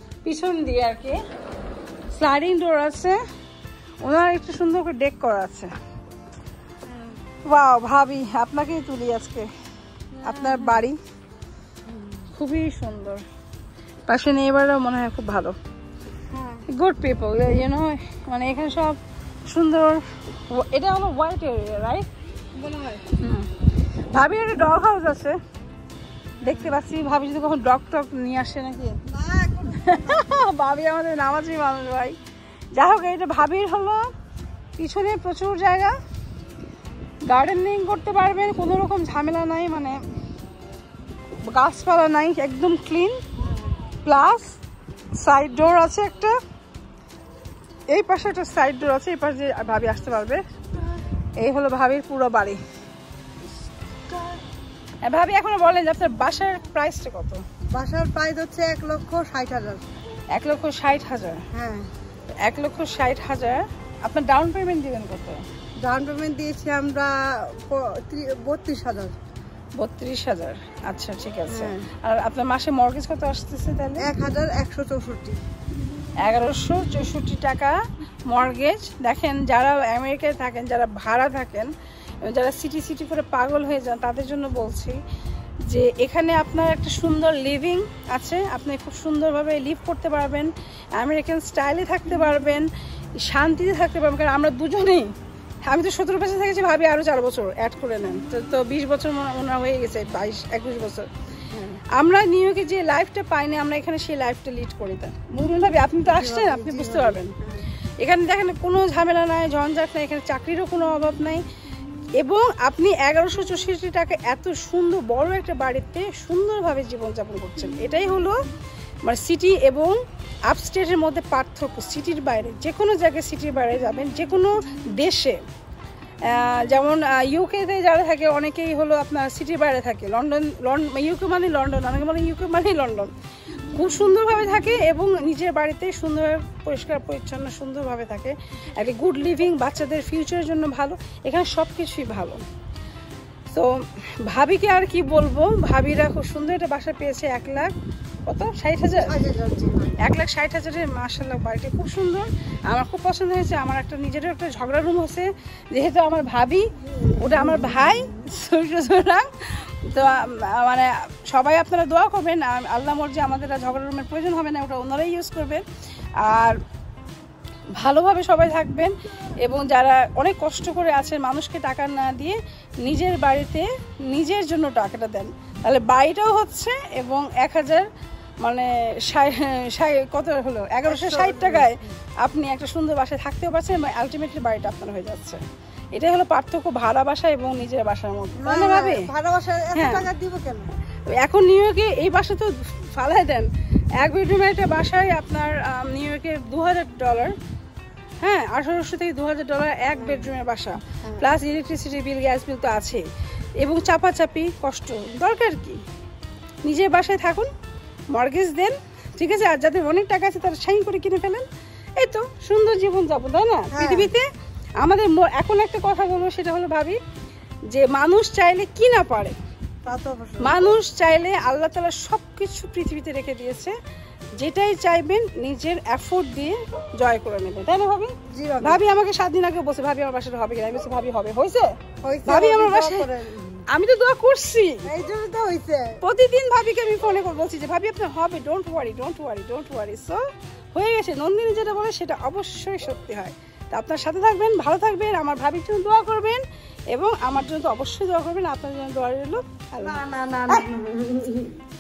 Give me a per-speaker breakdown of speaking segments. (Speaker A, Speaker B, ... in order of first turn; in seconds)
Speaker A: 0.2-1.2, 2.1-3.2, 4.0-5.7, 7.5-9.5, 10.2-11.0, 12.3-13.2, 14.1-15.6, 16.7-22.1, 23.2-23.5, 24.1-25.4, 26.4-29.0, 29.7-32.2, 32.8-34.1, 34.8-35.9, 37.3-40.0, 41.5-43.2, 44.0-44.5, 45.2-46.4, 47.9-50.4, 51.4-52.6, 55.0-57.4, 60.3-61.5, 62.4-65.4, 69.8-74.1, 76.2-81.7, 82.2-85.0, 85.7-92.7, 93.2-95.1, 95.7-101.1, 101.9-107.4, 108.0-111.5, 112.2-118.4, 119.0-120.0, 120.5-125.4, 126.3-142.4, 144.2-147.7, 148.3-149.2, 150.0-165.6, 166.2-166.6, 167.8-177.9, 178.4-185.4, 185.9-189.1, 189.7-190.1, 191.1-197.3, 198.2-203.1, 203.6-205.8, 206.6-207.5, 208.1-211.5, 212.0-214.3, 214.8-217.0, 217.7-219.4, 220.4-223.7, 224.4-231.7, 232.2-233.1, 233.7-234.9, 236.0-240.2, 240.7-246.4, 246.9-250.7
Speaker B: 6.9-7.2, 10.1-10.8, 11.9-12.3, 16.3-16.6, 22.6-23.1, 26.4-26.7, 29.1-30.2, 43.5-43.7, 57.7-59.8, 61.5-61.9, 65.8-69.2, 71.5-71.9, 74.0-75.4, 106.0-107.7, 149.0-150.0, 157.1-157.6, 180.9-181.8, 188.4-190.7, 200.0-200.3, 201.0-201.3, 213.7-214.1, 219.8-220.7, 228.3-228.8, 232.0-233.7, 234.8-236.0, 249.8-251.6